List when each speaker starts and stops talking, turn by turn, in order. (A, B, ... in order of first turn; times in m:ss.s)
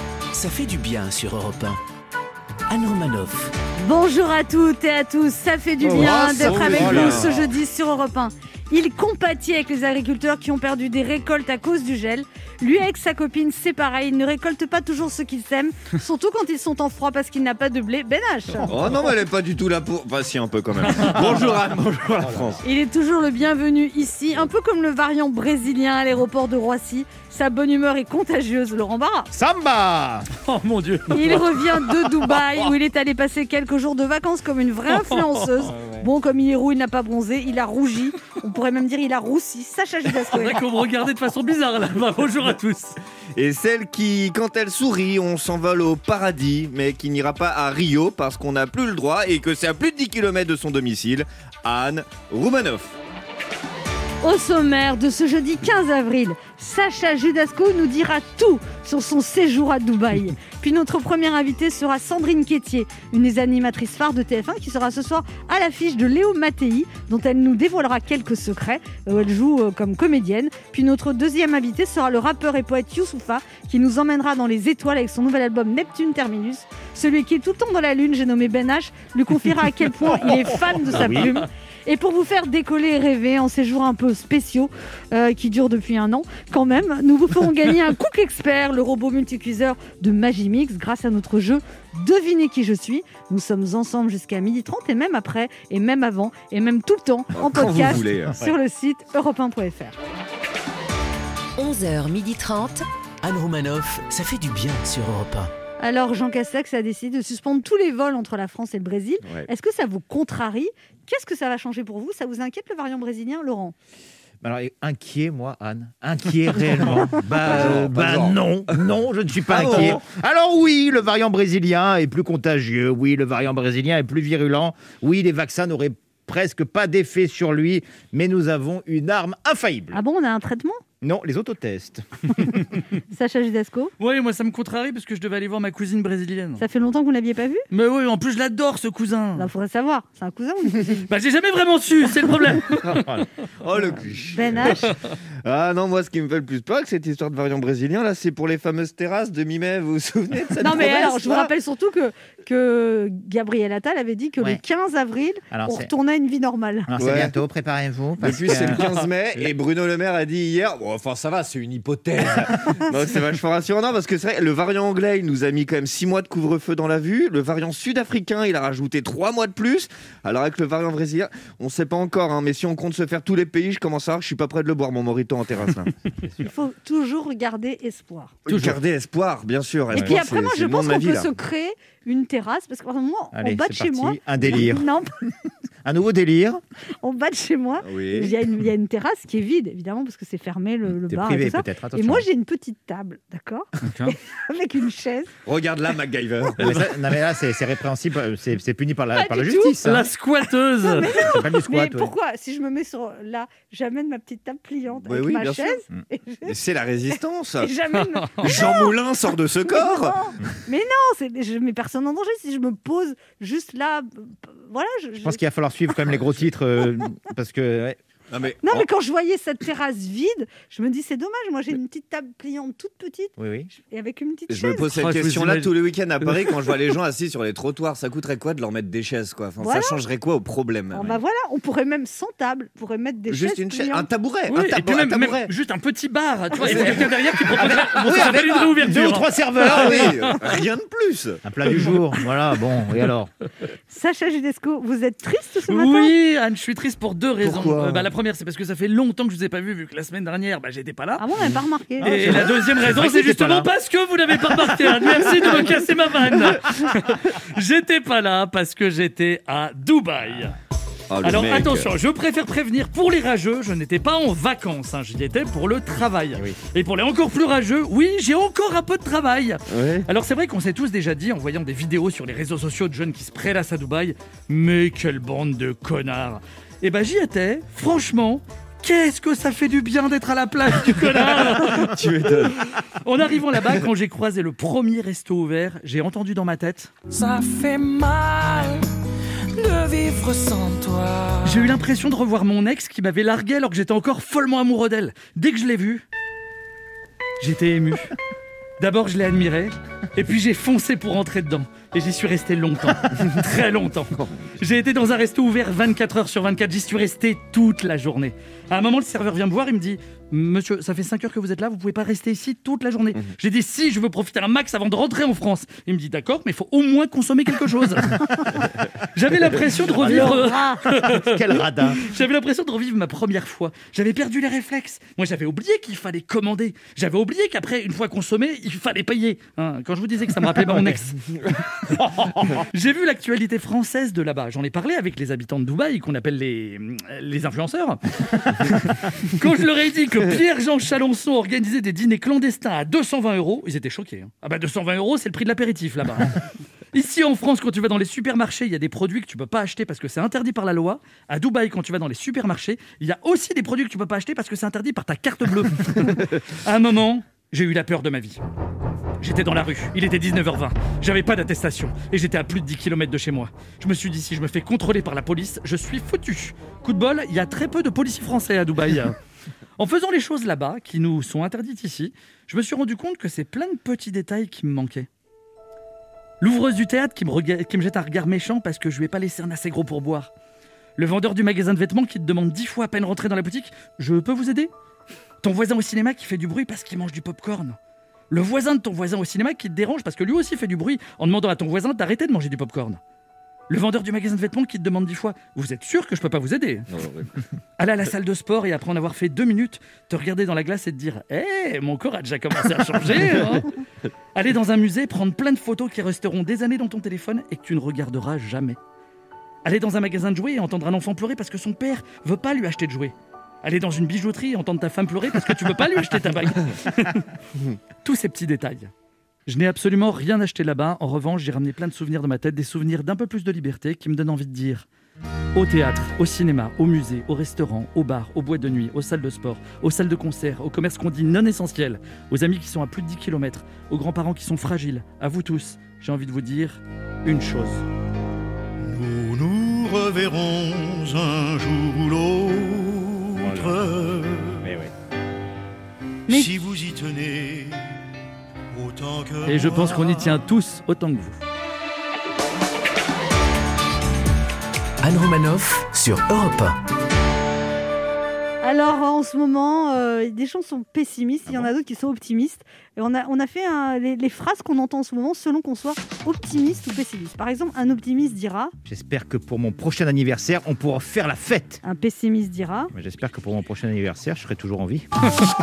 0:00.3-0:01.8 A
0:02.7-0:03.5 A
0:03.8-0:18.8 B
0:05.8-0:07.4 C
0:05.9-0:07.4 D
0:18.7-0:22.6 D
0:20.9-0:21.1 E
0:22.2-0:22.6 C
0:22.6-0:29.3 B
0:29.3-0:30.3 C
0:30.4-0:31.8 E
0:31.1-0:40.6 B
0:34.9-0:35.4 E
0:35.7-0:36.0 C
0:40.3-0:43.0 E
0:43.4-0:53.0 D
0:54.2-1:40.0 B
1:20.9-1:21.4 C
1:37.3-1:38.4 D
1:41.6-1:45.5 A
1:45.8-1:53.7 B
1:49.2-1:49.5 D
1:54.4-2:10.0 C
1:57.4-1:58.8 D
1:59.5-2:00.0 D
2:09.9-2:10.8 B
2:11.0-2:12.7 C
2:13.1-2:13.9 B
2:14.0-2:16.6 E
2:16.6-2:17.6 B
2:17.7-2:19.5 E
2:19.4-2:21.1 B
2:21.1-2:23.2 E
2:22.9-2:23.2 C
2:23.6-2:24.9 D
2:24.3-2:24.9 B
2:25.4-2:31.5 D
2:30.6-2:36.9 B
2:35.5-2:35.9 C
2:36.9-2:38.8 C
2:37.0-2:37.4 D
2:38.2-2:56.0 D
2:56.4-2:58.3 B
2:58.4-3:01.3 D
2:58.5-2:58.8 E
2:59.9-3:05.1 B
2:59.9-3:00.2 C
3:03.3-3:04.9 C
3:05.8-3:06.6 C
3:07.0-3:15.3 B
3:07.8-3:08.3 D
3:10.8-3:12.2 C
3:13.8-3:14.2 E
3:15.4-3:16.8 D
3:16.6-3:20.1 C
3:19.1-3:19.8 B
3:19.8-3:21.2 E
3:20.8-3:26.5 B
3:21.0-3:22.1 C
3:25.0-3:25.8 D
3:26.4-3:27.7 D
3:27.6-3:29.0 B
3:28.4-3:30.2 D
3:29.7-3:35.4 B
3:35.2-3:38.0 C
3:36.1-3:36.4 D
3:38.3-3:38.9 D
3:38.6-3:44.9 B
3:43.4-3:43.7 C
3:44.5-3:51.2 D
3:44.9-3:46.6 E
3:49.6-3:50.0 B
3:50.9-3:54.1 B
3:53.3-3:55.5 D
3:54.5-4:00.4 E
3:56.6-3:58.7 D
3:57.6-4:00.1 C
3:59.6-4:01.8 D
4:01.4-4:03.3 C
4:03.9-4:06.1 B
4:05.7-4:11.2 E
4:07.4-4:08.1 D
4:11.2-4:12.1 B
4:12.0-4:13.7 C
4:12.0-4:20.6 E
4:21.1-4:21.9 D
4:21.2-4:41.9 E
4:29.7-4:30.1 D
4:41.7-4:42.7 D
4:43.0-4:46.9 E
4:47.1-4:48.8 F
4:49.5-4:51.7 F
4:51.4-4:56.0 E
4:57.4-4:58.1 E
4:58.8-5:31.3 E
5:04.2-5:04.5 D
5:20.0-5:22.0 C
5:20.0-5:20.8 B
5:32.3-5:46.4 E
5:46.9-5:58.4 E
5:59.2-6:09.2 E
6:09.8-6:15.1 E
6:16.4-6:20.3 E
6:21.0-6:24.7 E
6:25.4-6:27.8 E
6:28.3-6:33.0 E
6:33.7-6:36.9 E
6:36.9-6:37.3 D
6:37.8-6:43.7 E
6:44.4-6:48.8 E
6:49.6-6:57.2 E
6:58.0-6:58.9 E
6:59.5-7:04.9 E
7:05.5-7:17.8 E
7:18.8-7:24.7 G
7:23.4-7:23.8 C
7:24.6-7:24.9 C
7:26.3-7:26.5 B
7:26.3-7:28.0 G
7:28.7-7:30.4 G
7:29.5-7:31.4 E
7:35.0-7:36.8 A
7:38.6-7:48.7 B
7:41.5-7:41.7 C
7:48.8-7:51.8 C
7:51.8-7:52.9 B
7:52.9-7:55.1 C